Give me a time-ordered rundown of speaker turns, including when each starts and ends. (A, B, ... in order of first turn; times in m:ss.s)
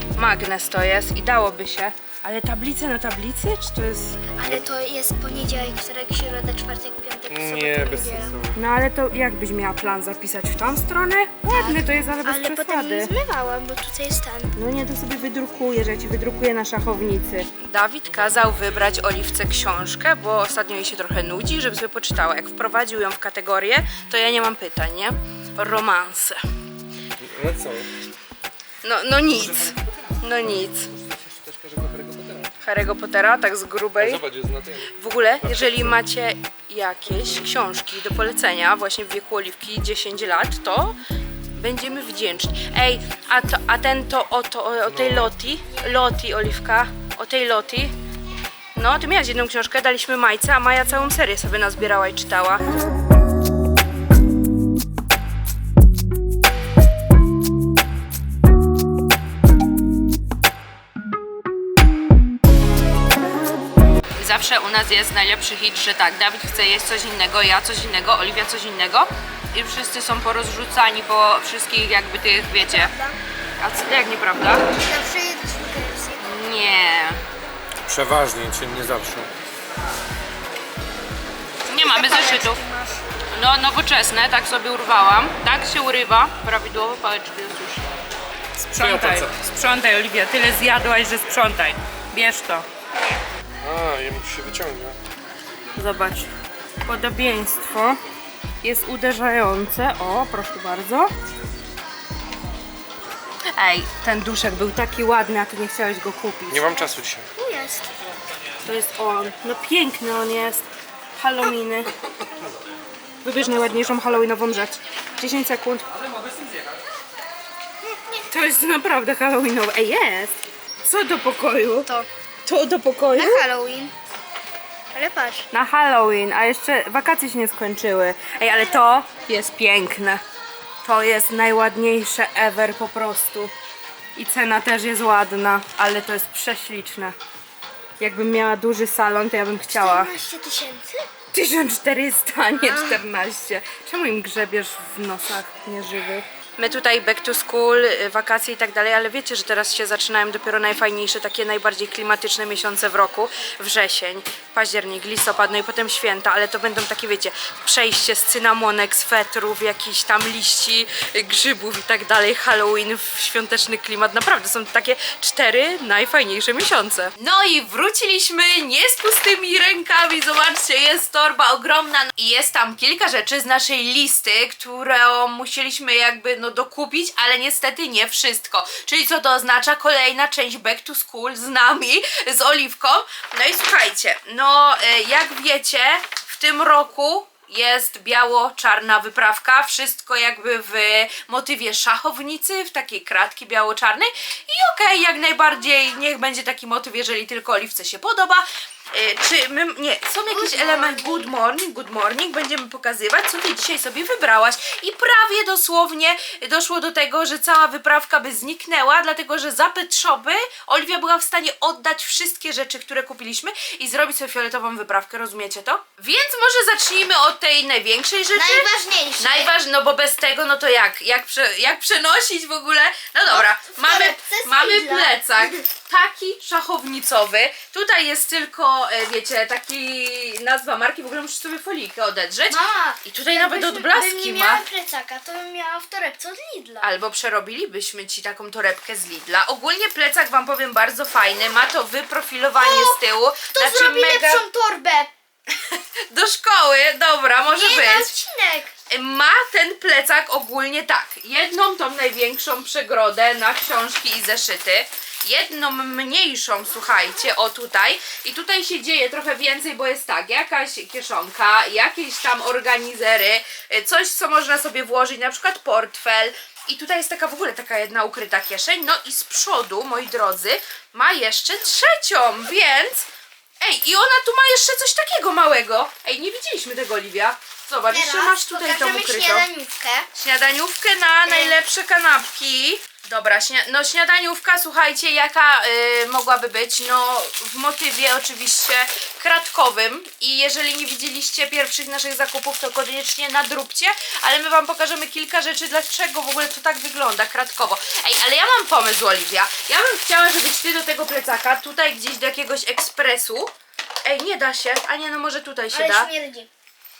0:00.2-0:04.2 A
0:04.3-0:08.3 B
0:07.3-0:08.6 C
0:08.6-0:13.1 A
0:11.5-0:14.5 B
0:14.6-0:26.4 A
0:27.2-0:27.9 C
0:28.8-0:30.9 A
0:30.9-0:32.5 C
0:32.6-0:34.2 A
0:34.0-0:36.0 C
0:34.9-0:41.0 A
0:41.5-0:47.9 A
0:44.9-0:45.3 C
0:48.8-0:52.7 A
1:04.2-1:12.9 A
1:12.6-1:13.2 B
1:13.6-1:14.7 A
1:14.7-1:16.2 B
1:16.2-1:17.2 A
1:17.9-1:19.3 C
1:21.6-1:22.6 A
1:21.7-1:23.0 B
1:23.3-1:27.9 A
1:28.6-1:32.7 A
1:28.8-1:29.4 C
1:33.6-1:35.0 C
1:35.8-1:36.3 A
1:36.8-1:38.0 A
1:38.6-1:41.1 A
1:43.6-1:46.7 A
1:46.5-1:47.3 C
1:47.4-1:48.0 B
1:48.6-1:50.6 A
1:51.2-1:51.9 A
1:53.2-1:55.8 A
1:57.8-1:58.2 B
1:58.3-2:01.9 A
2:02.4-2:03.4 A
2:03.1-2:03.9 B
2:04.9-2:05.5 B
2:05.5-2:10.2 A
2:08.5-2:08.8 B
2:10.8-2:13.5 A
2:14.2-2:17.1 A
2:18.0-2:20.1 A
2:19.7-2:21.1 B
2:21.3-3:54.6 A
2:22.6-2:23.0 B
3:20.3-3:21.3 B
3:38.4-3:39.5 B
3:43.3-3:45.6 B
3:52.5-3:56.9 B
3:56.8-4:04.4 A
4:02.6-4:05.1 B
4:05.6-4:08.1 A
4:07.5-4:08.7 B
4:08.9-4:33.1 A
4:33.6-4:39.4 A
4:37.9-4:40.1 B
4:40.1-5:03.5 A
4:41.3-4:41.6 B
5:04.0-5:06.1 A
5:05.7-5:06.5 B